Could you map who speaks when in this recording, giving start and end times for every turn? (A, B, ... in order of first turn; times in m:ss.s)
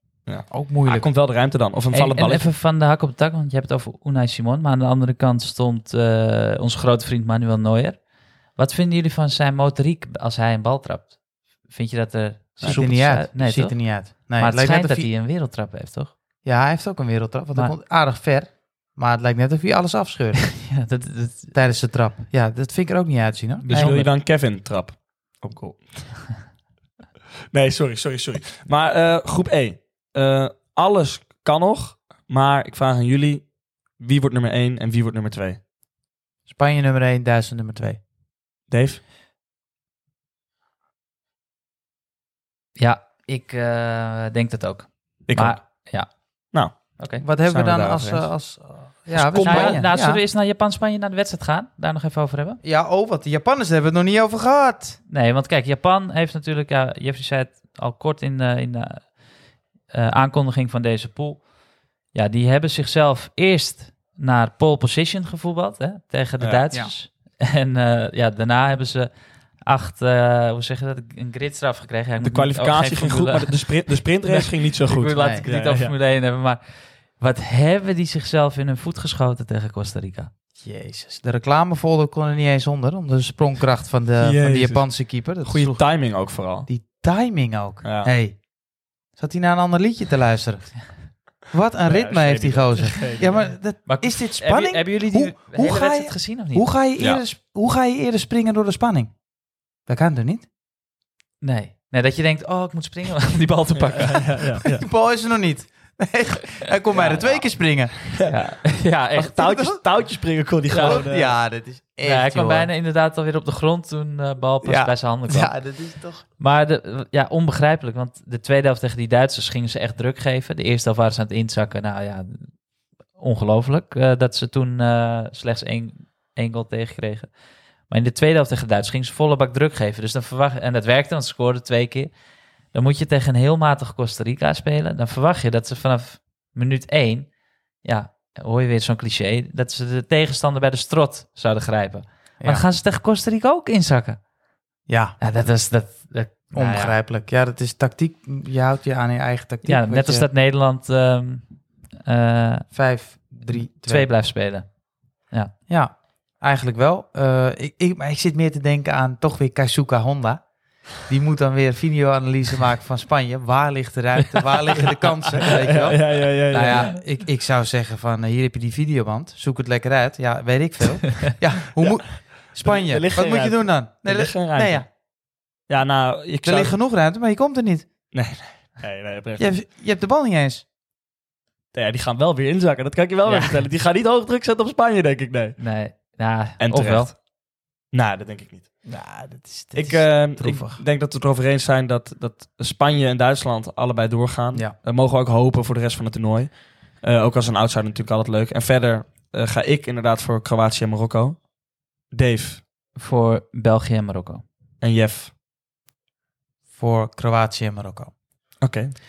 0:00.2-0:02.5 A
0:00.5-0:01.1 B
0:01.9-0:16.2 C
0:12.6-0:15.1 B
0:16.4-0:23.9 B
0:20.4-0:21.6 C
0:23.6-0:24.1 C
0:23.7-0:26.4 A
0:27.5-0:35.6 A
0:36.5-0:38.0 B
0:38.7-0:39.0 A
0:42.8-0:47.2 C
0:45.3-0:45.9 A
0:46.5-0:48.4 A
0:47.2-0:50.2 B
0:49.1-0:49.9 A
0:49.4-0:52.6 C
0:52.6-0:55.0 B
0:55.1-1:20.3 C
1:06.4-1:06.6 A
1:12.2-1:16.0 A
1:15.2-1:15.5 B
1:20.6-1:40.5 B
1:24.2-1:26.7 A
1:27.8-1:28.1 A
1:31.8-1:33.5 A
1:33.2-1:36.7 C
1:41.4-1:44.6 C
1:44.0-1:44.9 A
1:44.8-1:48.4 B
1:46.9-1:47.6 C
1:48.2-1:49.7 C
1:48.5-1:51.4 A
1:49.5-1:49.8 B
1:50.7-1:51.3 C
1:50.8-1:52.7 B
1:52.0-2:02.6 C
1:54.6-1:56.3 B
2:03.1-2:12.1 C
2:12.7-2:24.2 C
2:22.4-2:22.7 B
2:24.9-2:25.2 B
2:25.2-2:27.0 C
2:26.5-2:30.3 B
2:29.6-2:32.9 C
2:32.7-2:34.1 B
2:33.5-2:35.5 C
2:35.7-2:54.9 B
2:45.7-2:46.9 A
2:46.5-2:47.1 C
2:51.8-2:55.0 A
2:55.6-2:56.8 A
2:56.4-2:57.9 B
2:58.1-2:59.6 A
2:59.4-3:00.6 B
3:01.7-3:05.7 A
3:03.2-3:03.7 C
3:05.6-3:07.1 C
3:06.6-3:07.3 A
3:07.9-3:08.9 A
3:08.9-3:10.8 B
3:09.7-3:21.5 A
3:22.0-3:22.6 A
3:23.0-3:24.4 C
3:24.8-3:25.3 A
3:26.7-3:28.1 B
3:28.6-3:29.0 A